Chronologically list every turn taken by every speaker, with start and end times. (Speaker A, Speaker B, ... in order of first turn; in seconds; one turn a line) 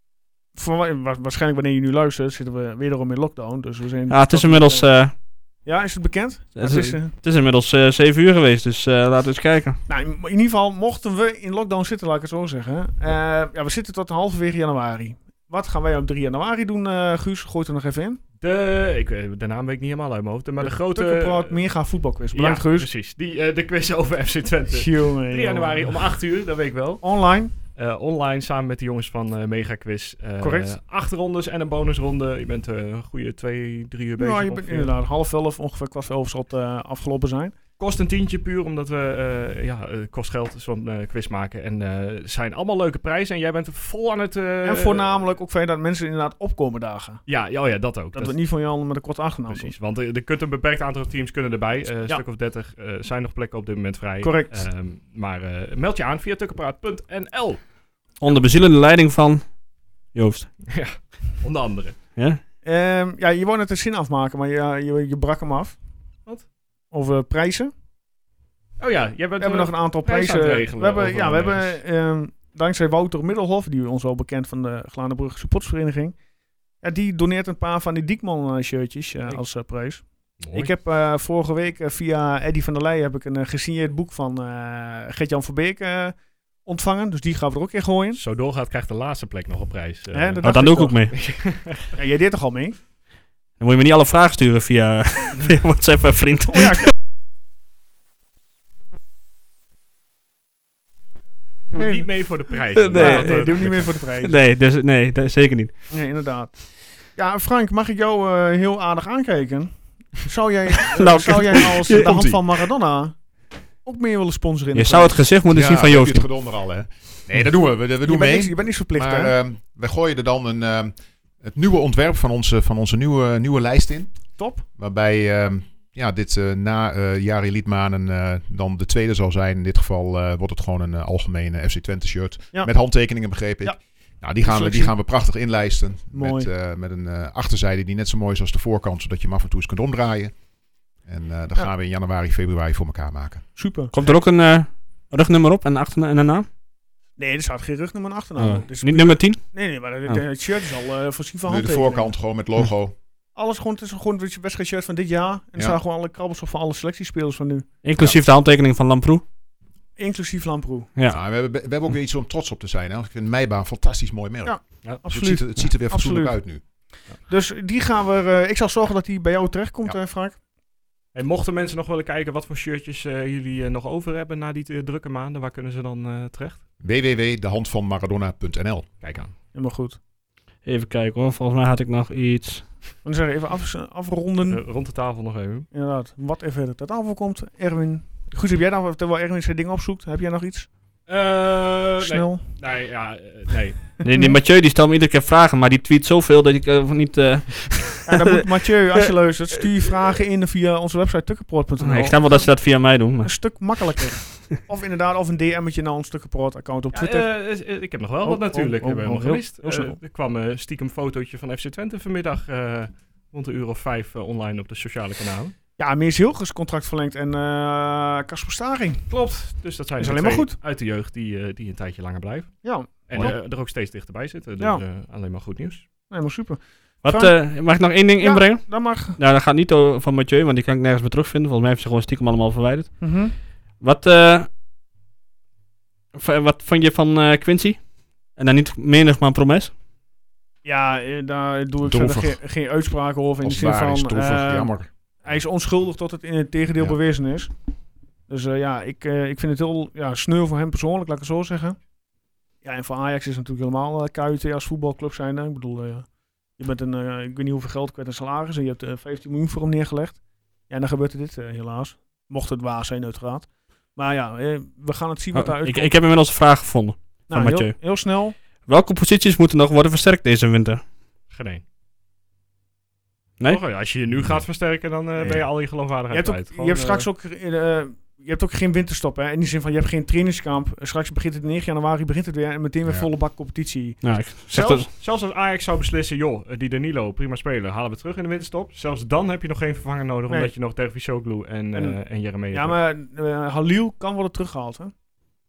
Speaker A: 0.6-5.0
Speaker B: 4.1-5.1
Speaker A: 5.6-7.1
Speaker B: 6.6-9.8
Speaker A: 9.9-18.2
Speaker C: 18.4-21.6
Speaker A: 20.6-22.9
Speaker C: 22.3-34.9
Speaker A: 24.7-26.0
Speaker A: 27.0-27.5
Speaker A: 30.4-30.7
Speaker A: 34.2-37.5
Speaker C: 37.8-45.2
Speaker A: 44.6-47.2
Speaker C: 47.3-48.4
Speaker A: 48.1-49.7
Speaker C: 49.5-57.6
Speaker A: 54.2-54.7
Speaker B: 58.2-59.5
Speaker B: 60.1-60.5
Speaker C: 60.7-62.0
Speaker A: 62.6-65.8
Speaker A: 66.9-67.7
Speaker C: 68.8-71.8
Speaker A: 69.4-76.2
Speaker A: 76.8-88.2
Speaker C: 80.4-80.7
Speaker C: 88.1-91.9
Speaker A: 90.1-92.8
Speaker B: 90.4-91.1
Speaker B: 93.6-96.9
Speaker A: 96.5-96.9
Speaker A: 101.7-102.1
Speaker C: 101.7-104.0
Speaker B: 102.7-105.7
Speaker A: 102.9-104.4
Speaker A: 105.9-113.2
Speaker B: 110.9-112.2
Speaker D: 111.8-112.4
Speaker A: 113.8-115.2
Speaker B: 114.7-116.2
Speaker D: 115.5-143.5
Speaker A: 118.0-119.3
Speaker A: 124.4-124.7
Speaker A: 132.5-134.9
Speaker A: 136.1-136.5
Speaker A: 143.6-144.2
Speaker B: 143.9-146.5
Speaker A: 147.2-152.1
Speaker B: 148.4-150.2
Speaker D: 151.5-152.9
Speaker A: 153.3-157.7
Speaker B: 157.8-159.2
Speaker D: 158.0-158.2
Speaker A: 160.0-160.9
Speaker D: 161.1-166.6
Speaker A: 164.4-170.4
Speaker C: 171.1-176.6
Speaker D: 176.8-178.9
Speaker C: 179.0-179.3
Speaker A: 179.5-180.0
Speaker B: 180.6-182.7
Speaker A: 183.0-184.6
Speaker C: 184.5-185.7
Speaker A: 185.7-190.7
Speaker C: 191.1-194.0
Speaker A: 192.0-192.4
Speaker A: 194.0-194.4
Speaker B: 194.0-198.3
Speaker A: 198.1-202.6
Speaker B: 201.8-203.5
Speaker A: 203.2-207.4
Speaker C: 206.9-215.5
Speaker A: 208.2-210.0
Speaker A: 215.8-219.1
Speaker C: 219.1-225.8
Speaker A: 220.0-220.6
Speaker A: 222.6-223.4
Speaker A: 226.1-227.4
Speaker B: 227.0-234.5
Speaker A: 228.2-229.2
Speaker A: 233.0-233.3
Speaker B: 236.1-239.7
Speaker A: 240.6-247.5
Speaker D: 241.8-242.4
Speaker D: 243.4-244.9
Speaker A: 248.3-251.8
Speaker A: 252.6-266.0
Speaker B: 265.3-267.8
Speaker A: 267.3-268.3
Speaker B: 268.7-270.8
Speaker C: 271.3-271.6
Speaker C: 273.5-277.1
Speaker D: 274.1-274.4
Speaker A: 275.2-284.9
Speaker B: 284.0-284.9
Speaker C: 284.7-292.8
Speaker A: 291.7-294.9